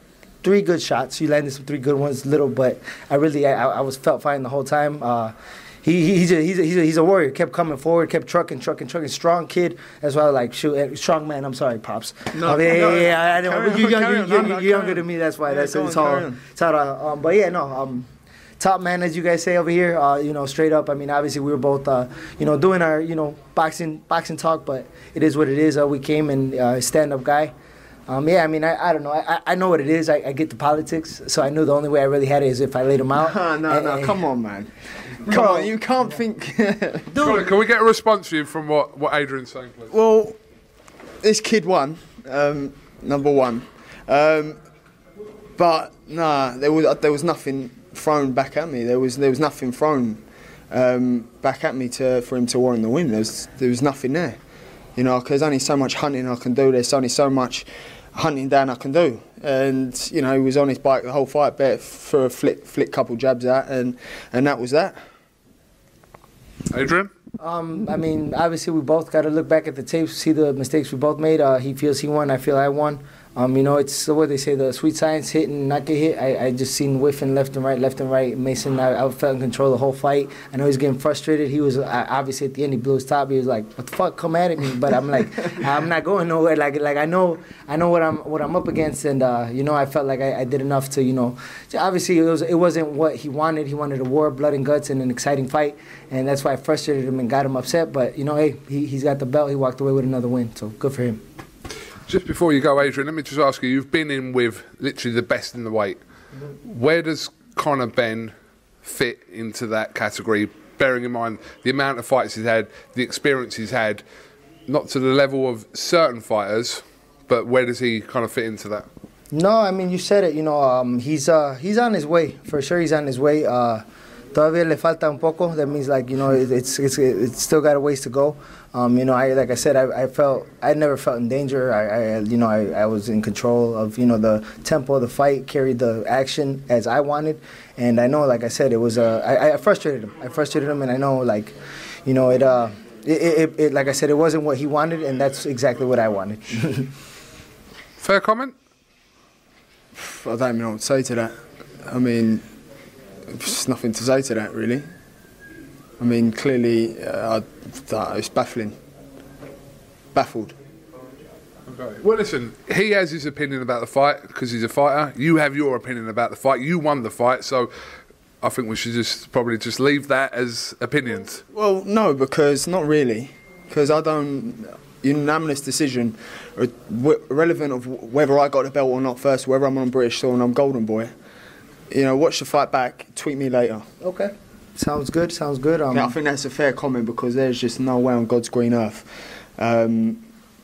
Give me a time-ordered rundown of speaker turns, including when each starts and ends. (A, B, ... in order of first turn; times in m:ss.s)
0:00.4-0:18.1 A
0:12.3-0:16.4 B
0:18.6-0:27.5 A
0:28.1-0:34.2 A
0:33.1-0:34.7 B
0:35.2-0:37.2 B
0:35.2-0:35.7 A
0:37.2-0:39.9 C
0:39.9-0:40.4 B
0:41.2-0:44.6 B
0:45.6-0:54.4 B
0:55.0-1:05.0 B
1:06.7-1:07.1 C
1:07.4-1:41.2 A
1:42.1-1:46.0 C
1:46.6-1:54.0 C
1:54.7-1:58.9 C
1:59.3-2:21.5 A
2:22.0-2:26.9 A
2:28.0-2:28.5 C
2:30.0-2:31.3 B
2:31.9-2:32.4 B
2:33.3-2:34.9 B
2:36.0-2:38.8 B
2:40.1-2:40.6 B
2:41.7-2:47.7 C
2:48.4-2:51.4 C
2:51.5-3:01.1 B
3:01.9-3:03.8 B
3:04.0-3:06.2 A
3:05.9-3:10.2 B